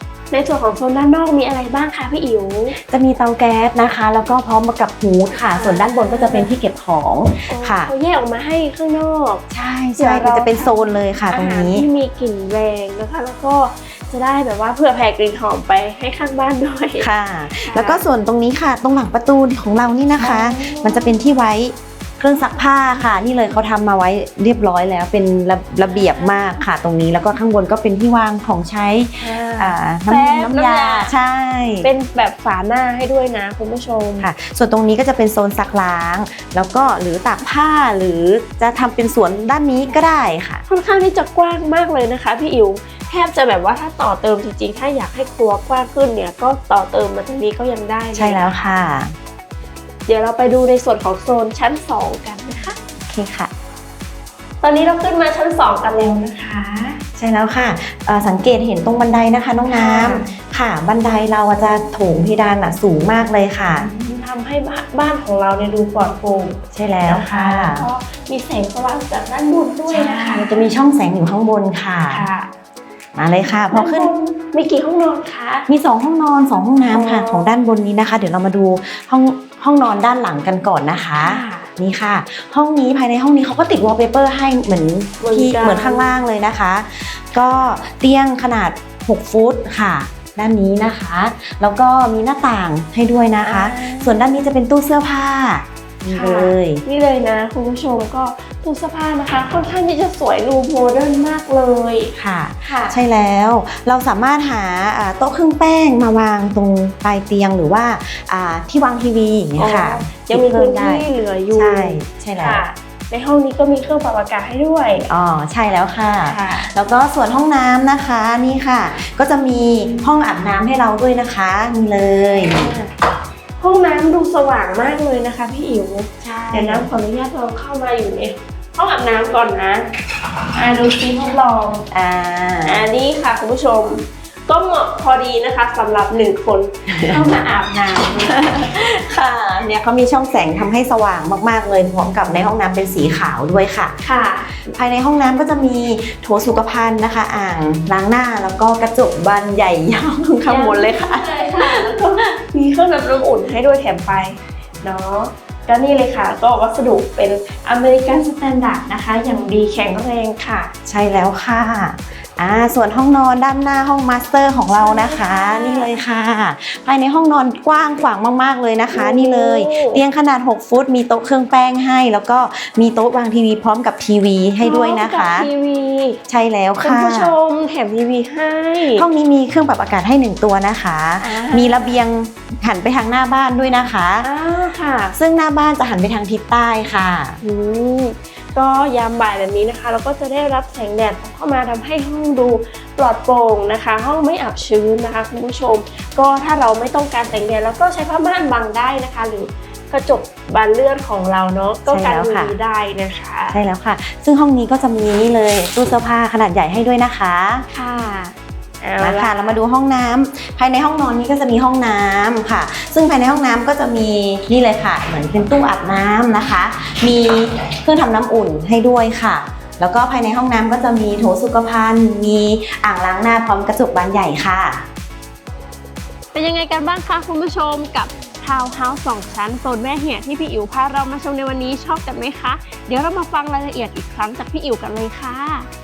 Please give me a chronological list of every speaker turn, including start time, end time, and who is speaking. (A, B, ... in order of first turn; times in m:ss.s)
0:00.3-0:02.8 A
0:02.7-0:07.9 B
0:05.3-0:06.5 A
0:07.5-0:17.1 A
0:09.5-0:11.8 B
0:17.0-0:31.9 B
0:17.6-0:18.0 A
0:20.2-0:21.2 A
0:25.8-0:26.6 A
0:29.2-0:31.1 A
0:31.8-0:34.3 A
0:34.2-0:40.6 B
0:40.7-0:48.6 A
0:48.1-0:49.1 B
0:50.1-0:52.8 A
0:53.0-0:53.5 B
0:54.6-0:57.0 A
0:57.2-1:03.9 B
0:59.6-1:00.3 A
1:03.8-1:10.7 A
1:06.7-1:07.9 B
1:09.9-1:12.3 B
1:12.1-1:12.5 A
1:13.1-1:14.1 B
1:13.7-1:15.7 A
1:15.7-1:36.8 B
1:16.9-1:17.6 A
1:21.2-1:21.7 A
1:25.2-1:26.1 A
1:33.4-1:34.2 A
1:36.1-1:43.0 A
1:42.1-1:52.6 B
1:49.6-1:55.1 A
1:55.1-2:02.7 B
1:56.2-1:56.7 A
2:02.2-2:02.9 A
2:03.6-2:09.8 A
2:06.2-2:06.9 B
2:10.5-2:11.9 A
2:11.9-2:12.8 B
2:12.6-2:18.7 A
2:16.9-2:17.2 B
2:18.2-2:24.0 B
2:24.0-2:24.6 A
2:24.6-2:32.0 B
2:30.4-2:40.7 A
2:40.8-2:55.5 B
2:44.7-2:45.9 A
2:48.9-2:50.0 A
2:54.6-2:56.2 A
2:56.3-2:57.3 B
2:56.8-2:59.1 A
2:58.8-3:04.3 B
3:01.2-3:02.0 A
3:04.2-3:05.2 A
3:05.1-3:07.4 B
3:07.4-3:23.6 A
3:21.9-3:22.6 B
3:23.5-3:27.6 B
3:27.7-3:29.6 A
3:29.0-3:44.8 B
3:46.3-3:55.7 A